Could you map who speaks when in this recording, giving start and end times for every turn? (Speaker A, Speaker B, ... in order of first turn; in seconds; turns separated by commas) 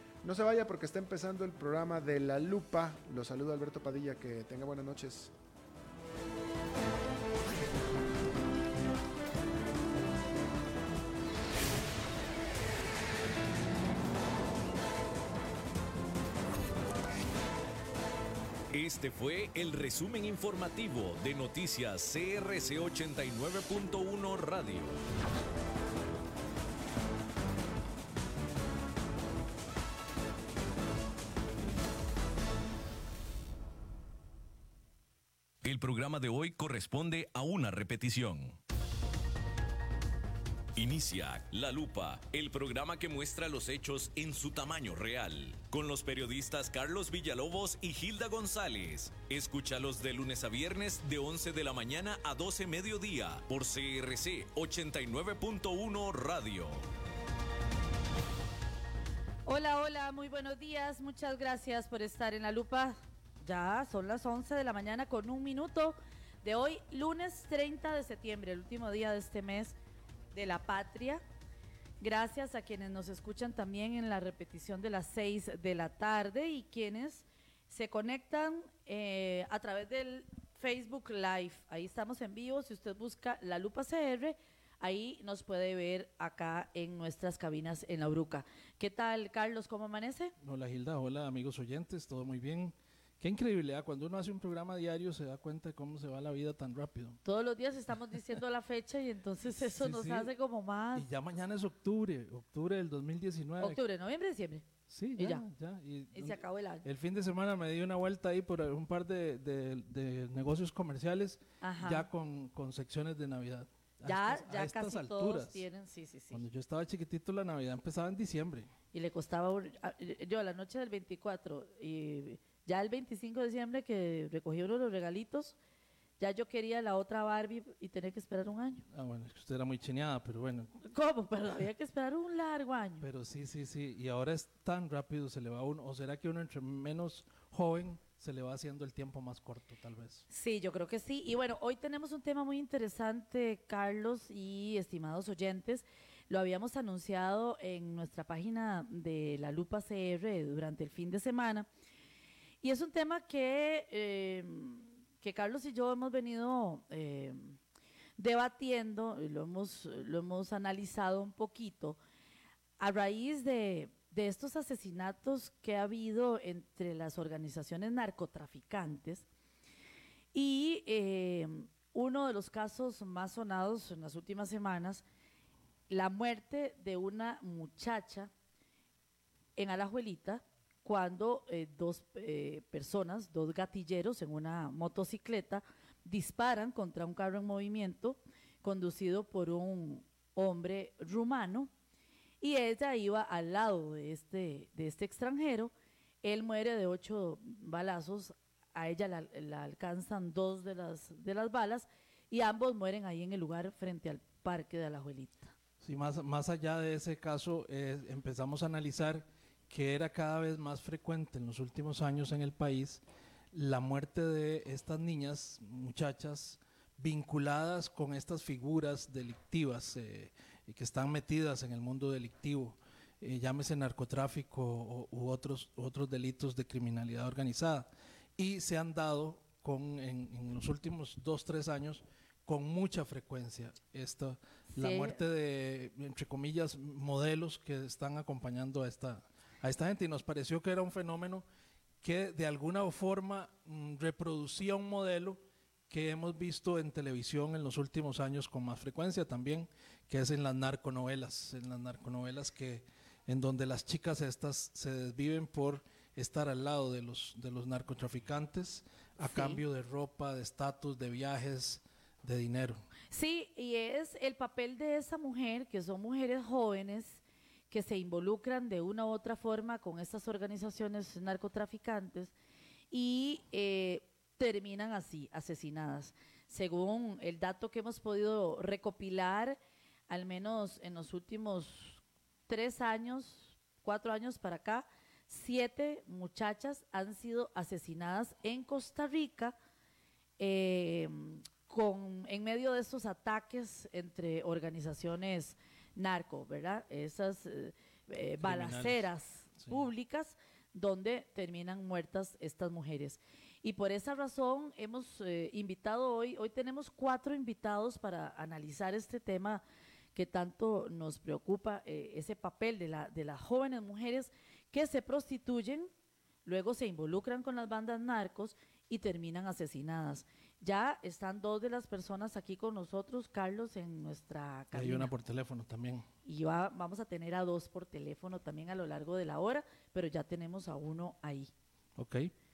Speaker A: 0.2-5.3, Speaker B: 18.7-25.0, Speaker B: 35.6-38.6, Speaker B: 40.7-56.8, Speaker C: 59.5-69.8, Speaker C: 70.3-71.2, Speaker C: 72.0-90.3, Speaker D: 90.4-97.2, Speaker C: 97.2-101.1, Speaker D: 99.5-100.3, Speaker D: 100.9-103.8, Speaker C: 103.6-104.6, Speaker D: 104.9-115.7, Speaker C: 105.2-105.4, Speaker C: 106.1-106.8, Speaker C: 111.6-112.1, Speaker C: 114.0-116.5, Speaker D: 116.3-118.7, Speaker C: 118.9-125.6, Speaker C: 126.2-128.8, Speaker D: 128.9-130.7, Speaker C: 130.8-133.1, Speaker D: 133.0-140.2, Speaker C: 140.3-151.7, Speaker C: 152.6-157.6, Speaker C: 158.2-162.0, Speaker C: 162.8-169.3, Speaker C: 170.3-175.0, Speaker C: 175.9-178.3, Speaker C: 179.6-191.7, Speaker C: 192.4-205.5, Speaker D: 205.8-241.4, Speaker C: 234.7-235.2, Speaker D: 242.0-262.8, Speaker C: 259.2-259.6, Speaker C: 263.1-272.3, Speaker C: 272.9-289.5, Speaker C: 290.4-309.6, Speaker D: 298.4-299.8, Speaker C: 310.1-315.9, Speaker C: 316.4-325.1, Speaker D: 324.7-326.1, Speaker C: 326.2-331.5, Speaker D: 332.0-332.3